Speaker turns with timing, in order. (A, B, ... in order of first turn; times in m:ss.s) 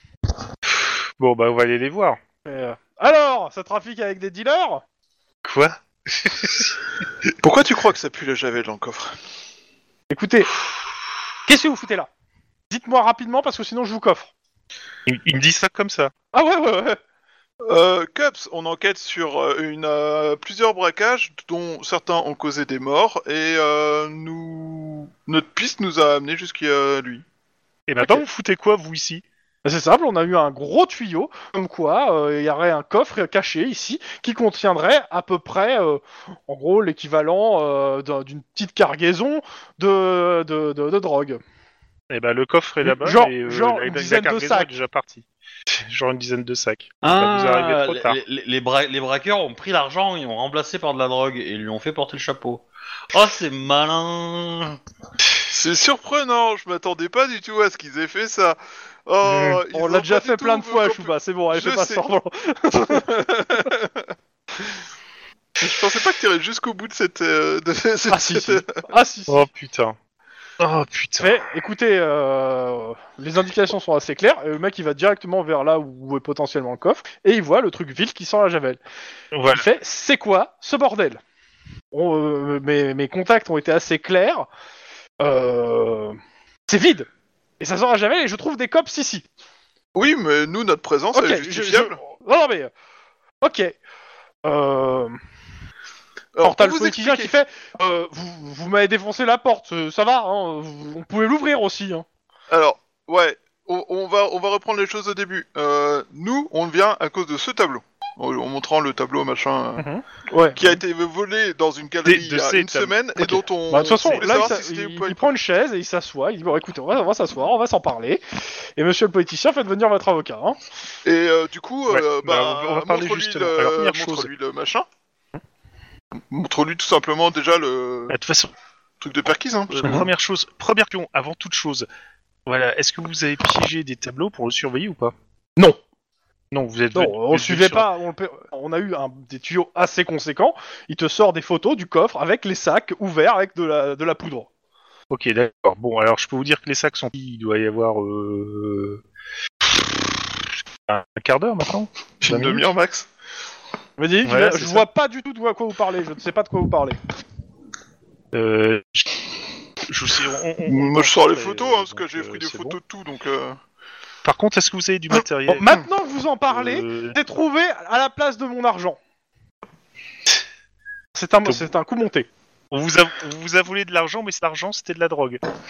0:00.7-0:02.2 A
0:02.4-0:04.8 B
0:05.4-0:06.8 A
0:07.4-0:09.2 C
0:10.1-0:10.5 B
0:11.5-0:12.1 B
0:12.7-0:14.3 B
0:15.1-0:16.1 A
0:16.3-0:17.0 B
0:17.6-0:27.2 C
0:27.9-0:29.2 A
0:29.6-0:41.4 B
0:42.1-0:48.2 A
0:42.8-0:44.7 B
0:47.0-0:54.8 D
0:55.5-1:02.1 C
0:59.3-0:59.6 A
0:59.7-1:03.2 B
1:02.8-1:04.1 C
1:05.6-1:08.8 C
1:08.1-1:09.5 B
1:09.3-1:10.0 A
1:10.6-1:11.4 A
1:11.2-1:18.8 B
1:19.3-1:19.6 A
1:19.5-1:21.2 B
1:21.9-1:24.5 B
1:25.2-1:26.2 B
1:26.7-1:27.1 B
1:27.6-1:29.3 B
1:30.0-1:32.0 C
1:31.1-1:32.7 B
1:33.4-1:33.8 B
1:34.4-1:35.2 B
1:36.3-1:37.3 C
1:36.4-1:42.1 B
1:42.5-1:49.8 C
1:49.8-1:50.8 B
1:50.6-1:55.3 C
1:52.0-1:54.3 A
1:53.7-1:58.2 B
1:58.8-2:00.6 B
2:01.0-2:04.9 C
2:01.9-2:04.3 A
2:06.2-2:08.1 C
2:08.1-2:08.5 A
2:09.0-2:10.1 C
2:09.7-2:11.9 A
2:12.5-2:15.1 A
2:16.5-2:17.9 A
2:16.9-2:24.5 B
2:25.1-2:29.0 A
2:29.6-2:30.0 A
2:30.9-2:32.6 A
2:32.2-2:33.1 C
2:34.0-2:37.0 B
2:34.2-2:34.9 A
2:38.3-2:39.2 A
2:39.9-2:42.8 A
2:40.7-2:43.6 C
2:44.2-2:45.8 A
2:45.5-2:49.0 B
2:46.5-2:47.2 A
2:51.2-2:52.3 B
2:52.7-2:55.4 A